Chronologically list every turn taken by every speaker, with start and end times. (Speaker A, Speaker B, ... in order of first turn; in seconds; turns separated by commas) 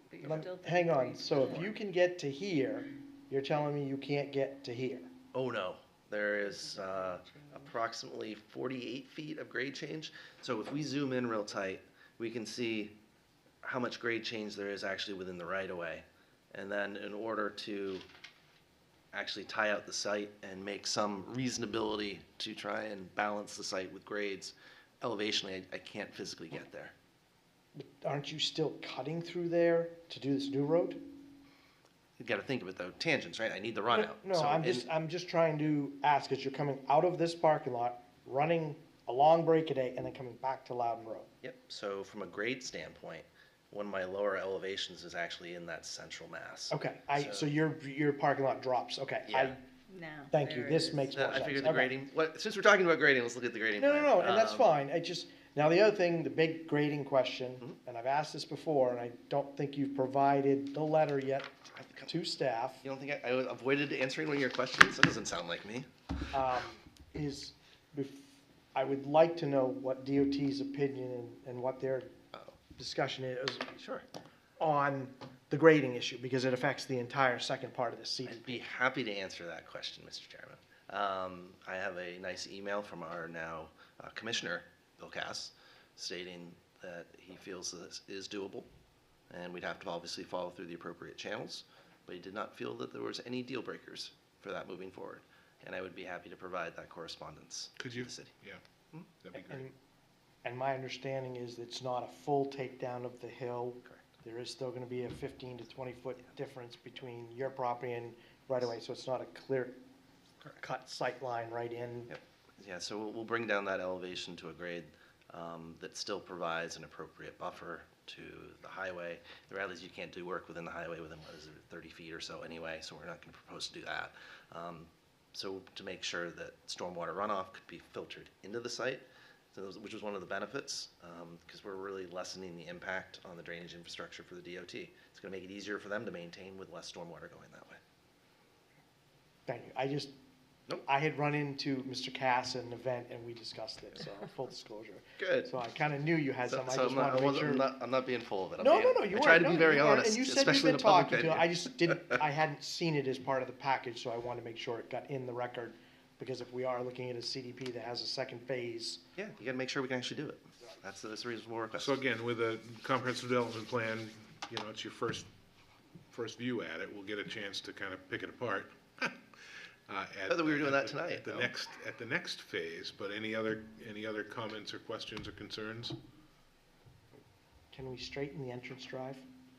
Speaker A: 0.1-1.7, Speaker B: 0.2-5.1, Speaker C: 5.3-12.9, Speaker A: 6.4-7.7, Speaker C: 13.6-18.1, Speaker C: 19.1-26.9, Speaker B: 27.8-31.0, Speaker C: 32.2-34.9, Speaker B: 33.9-41.3, Speaker C: 41.4-47.5, Speaker B: 46.7-49.6, Speaker C: 49.2-49.6, Speaker A: 49.9-51.4, Speaker B: 50.3-51.9, Speaker C: 51.1-54.7, Speaker B: 53.8-61.5, Speaker C: 61.7-62.1, Speaker B: 62.1-62.8, Speaker C: 62.8-65.9, Speaker B: 66.3-72.1, Speaker B: 72.8-73.7, Speaker C: 73.8-74.0, Speaker B: 74.6-78.6, Speaker C: 78.2-88.7, Speaker C: 89.3-98.3, Speaker D: 97.8-98.6, Speaker D: 99.2-99.6, Speaker B: 99.5-99.7, Speaker B: 100.4-109.8, Speaker B: 110.6-112.1, Speaker C: 112.1-137.8, Speaker B: 139.5-140.1, Speaker B: 140.8-147.7, Speaker C: 145.2-145.5, Speaker C: 146.4-152.0, Speaker B: 148.6-159.0, Speaker C: 159.2-161.9, Speaker D: 161.8-165.3, Speaker D: 166.1-169.2, Speaker D: 169.9-176.0, Speaker C: 170.3-171.5, Speaker B: 177.7-179.2